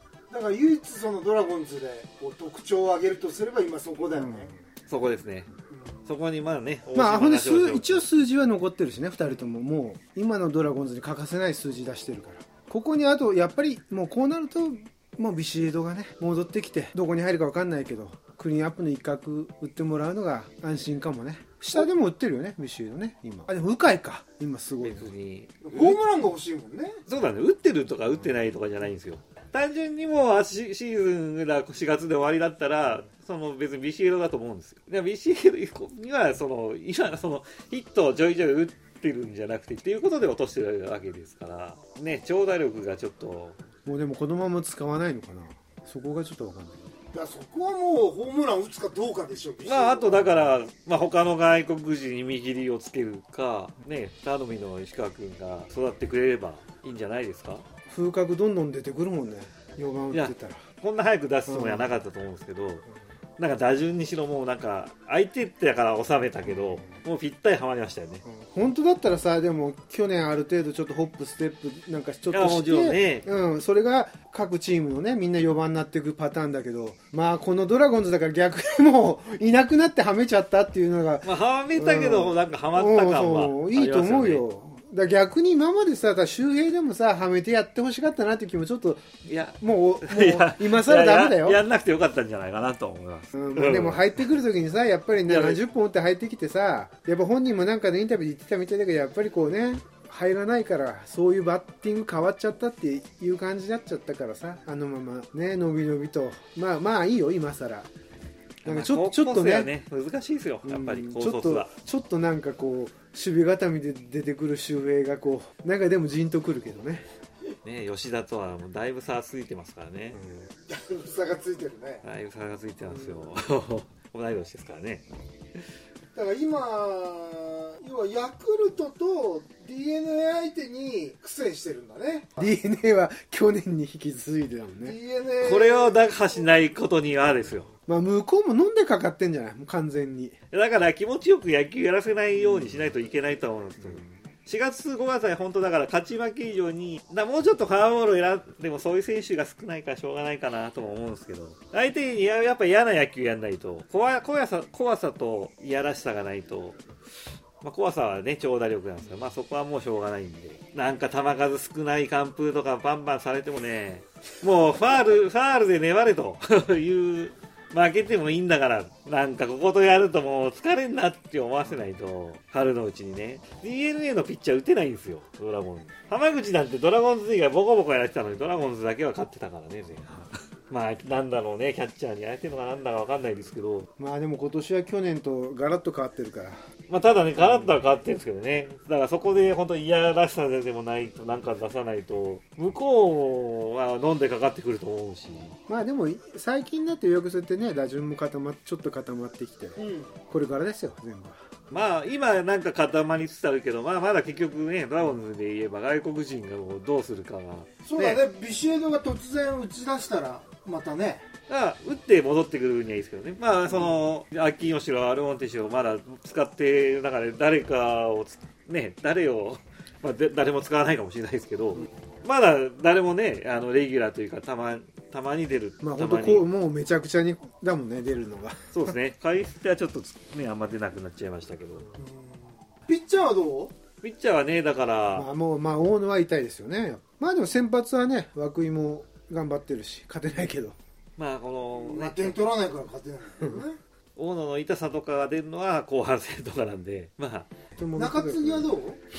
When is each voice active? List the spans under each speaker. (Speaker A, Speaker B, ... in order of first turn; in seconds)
Speaker A: 0.3-4.5, 5.7-6.1, 25.6-27.0, 47.1-50.3, 120.7-122.0, 126.2-132.5, 134.8-136.1, 199.8-200.1, 207.8-211.2, 232.0-233.8, 241.8-243.8, 247.9-249.0
Speaker B: 4.2-4.5, 6.9-25.1, 43.9-46.9, 57.9-60.6, 61.5-61.9, 66.4-67.0, 68.2-89.0, 89.6-91.6, 93.3-107.9, 108.6-109.7, 110.6-117.1, 120.2-120.5, 132.4-134.9, 137.9-140.3, 142.5-142.8, 184.0-186.6, 187.4-187.8, 195.7-199.8, 200.3-201.7, 225.8-228.9, 235.1-240.8, 247.8-248.7
Speaker C: 4.9-5.5, 6.1-8.0, 24.8-26.0, 27.1-43.6, 49.7-57.6, 60.1-62.8, 63.4-68.2, 72.3-73.2, 81.2-84.4, 89.3-94.2, 95.3-95.6, 108.7-111.7, 117.6-120.2, 122.0-125.0, 135.4-137.7, 140.5-156.8, 157.6-183.9, 186.9-195.6, 201.7-208.2, 211.5-226.5, 228.7-231.8, 234.0-235.3, 241.2-242.4, 244.2-247.5